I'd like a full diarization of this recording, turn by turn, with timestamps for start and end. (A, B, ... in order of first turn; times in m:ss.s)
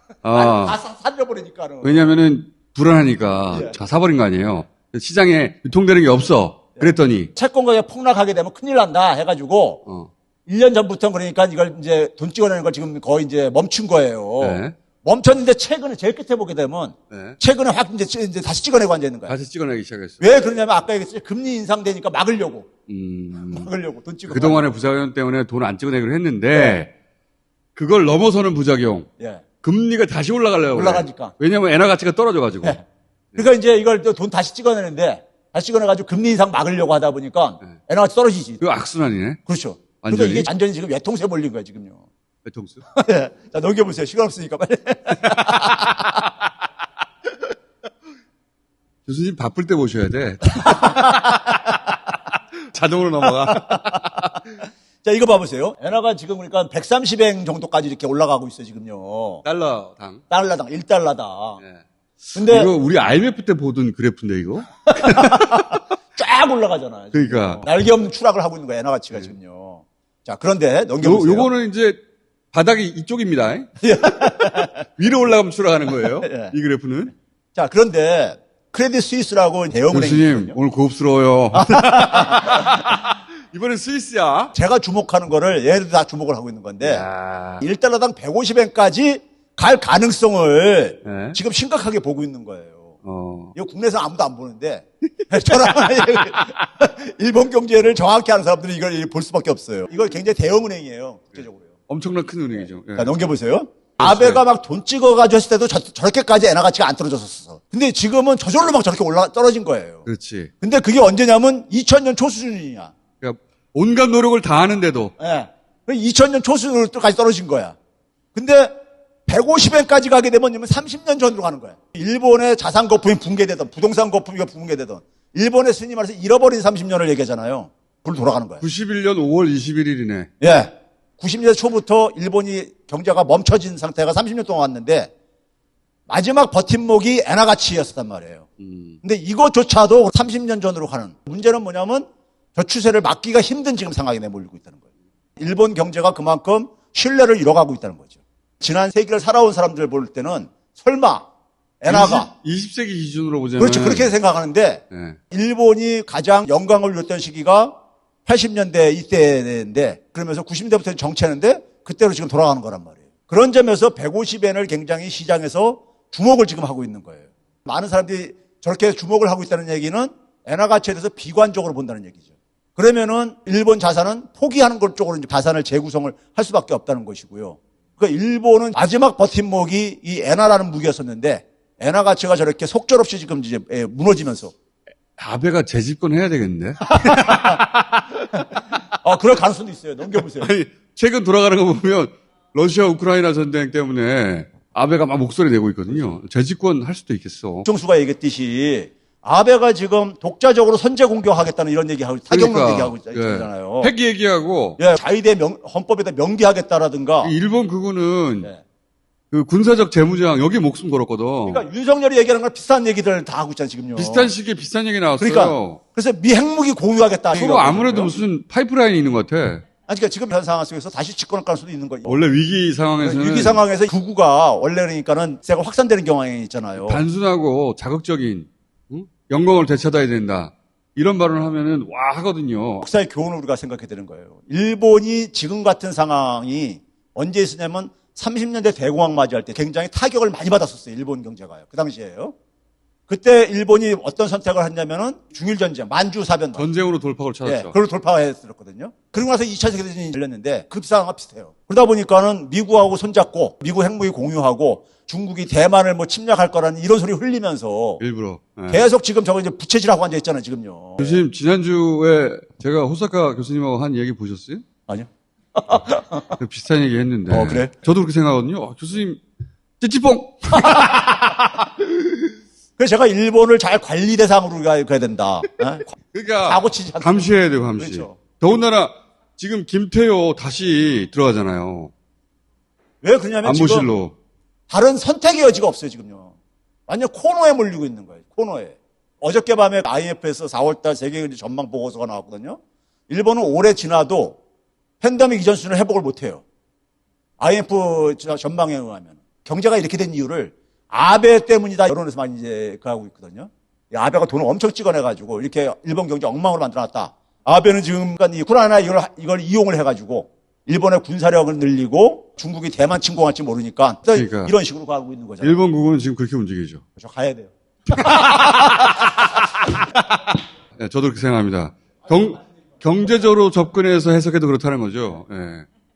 0:00.2-0:00.8 A
0:00.3-0:02.2 B
0:01.8-0:07.3 A
0:06.8-0:09.8 B
0:10.5-0:19.4 B
0:14.4-0:14.8 A
0:17.1-0:17.4 A
0:19.3-0:20.2 A
0:20.2-0:22.7 B
0:22.9-0:23.7 A
0:23.5-0:24.8 B
0:24.3-0:26.9 A
0:27.8-0:29.1 A
0:29.2-0:29.4 B
0:29.6-0:32.8 A
0:30.7-0:31.3 B
0:33.4-0:38.6 B
0:38.6-0:39.4 A
0:39.5-0:42.0 B
0:40.0-0:40.5 A
0:42.4-0:42.9 A
0:43.0-0:46.1 B
0:49.1-0:51.4 A
0:50.6-0:51.7 B
0:52.7-0:54.5 A
0:53.4-0:54.2 B
0:55.0-0:59.4 B
0:59.4-1:00.2 A
1:00.3-1:01.6 B
1:02.4-1:02.7 B
1:02.4-1:05.8 A
1:04.9-1:11.5 B
1:07.1-1:07.6 A
1:11.0-1:12.0 A
1:12.5-1:13.8 A
1:13.8-1:14.9 B
1:14.9-1:17.1 A
1:16.2-1:16.5 B
1:17.6-1:20.6 B
1:19.9-1:24.5 A
1:21.5-1:22.7 B
1:24.6-1:27.1 B
1:26.8-1:27.6 A
1:27.6-1:32.9 B
1:31.0-1:31.4 A
1:33.0-1:33.5 A
1:33.6-1:41.7 B
1:41.9-1:43.1 A
1:43.0-1:50.1 B
1:44.0-1:44.4 A
1:50.1-1:50.5 A
1:50.6-1:52.9 B
1:53.2-1:55.1 A
1:55.2-1:57.8 B
1:58.3-1:58.8 B
1:59.3-2:08.6 B
2:08.6-2:10.3 A
2:10.4-2:15.1 B
2:16.1-2:18.5 B
2:18.6-2:19.0 A
2:19.0-2:24.8 B
2:25.4-2:31.3 B
2:31.8-2:32.3 B
2:31.9-2:34.1 A
2:33.6-3:04.5 B
2:34.9-2:35.2 A
3:05.2-3:08.3 A
3:06.9-3:07.6 B
3:09.0-3:10.5 B
3:10.4-3:17.7 A
3:17.6-3:23.9 B
3:22.3-3:24.8 A
3:24.8-3:27.3 B
3:27.2-3:28.5 A
3:29.3-3:31.7 A
3:31.5-3:34.3 B
3:34.0-3:35.8 A
3:35.2-3:38.2 B
3:37.3-3:39.6 A
3:39.9-3:42.2 B
3:42.1-3:43.6 A
3:43.0-3:47.0 B
3:46.8-3:52.9 A
3:52.8-4:02.3 B
4:03.1-4:06.7 B
4:06.6-4:07.8 A
4:07.5-4:18.0 B
4:18.0-4:18.8 A
4:18.7-4:21.2 B
4:21.0-4:24.6 A
4:24.9-4:26.4 B
4:26.4-4:29.2 A
4:27.3-4:27.7 B
4:29.8-4:31.4 A
4:30.5-4:31.5 B
4:32.8-4:38.2 B
4:36.0-4:41.9 A
4:43.0-4:43.9 B
4:43.4-4:44.2 A
4:44.7-4:46.3 B
4:46.9-4:54.4 B
4:55.0-4:56.4 B
4:57.4-5:15.6 B
5:14.1-5:14.5 A
5:15.4-5:16.8 A
5:17.0-5:19.0 B
5:18.0-5:18.8 A
5:20.8-5:25.7 A